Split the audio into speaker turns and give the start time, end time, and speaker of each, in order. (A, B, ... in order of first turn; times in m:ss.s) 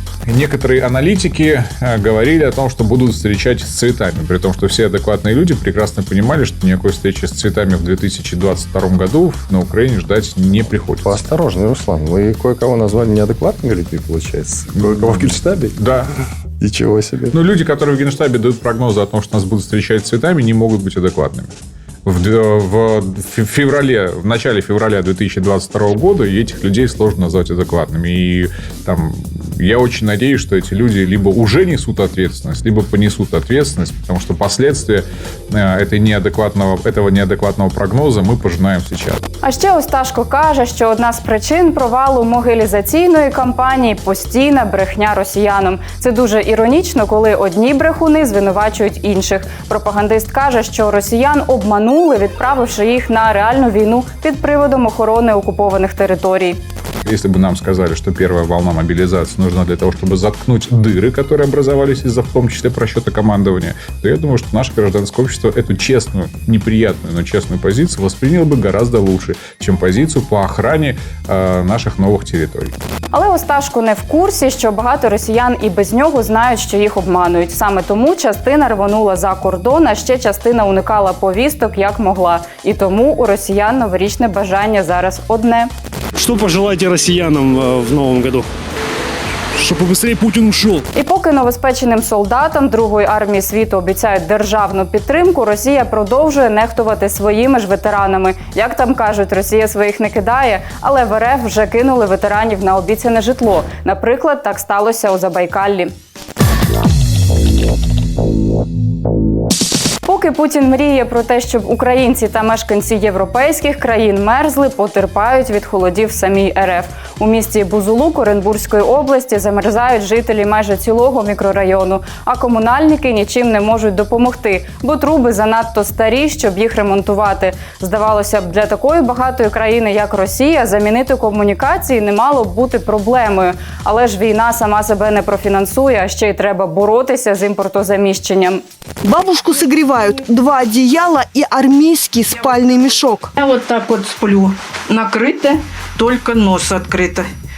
0:00.2-0:11.2 A
0:11.0-0:15.7 B
0:14.7-0:16.1 A
0:16.6-0:17.3 B
0:17.3-0:21.5 A
0:22.0-0:39.2 A
0:39.4-0:56.6 C
0:57.0-1:12.8 A
1:13.1-1:25.7 C
1:26.2-1:28.5 D
1:29.6-1:30.8 D
1:30.9-1:45.9 C
1:50.0-2:18.6 C
2:19.0-2:23.3 E
2:23.4-2:27.3 F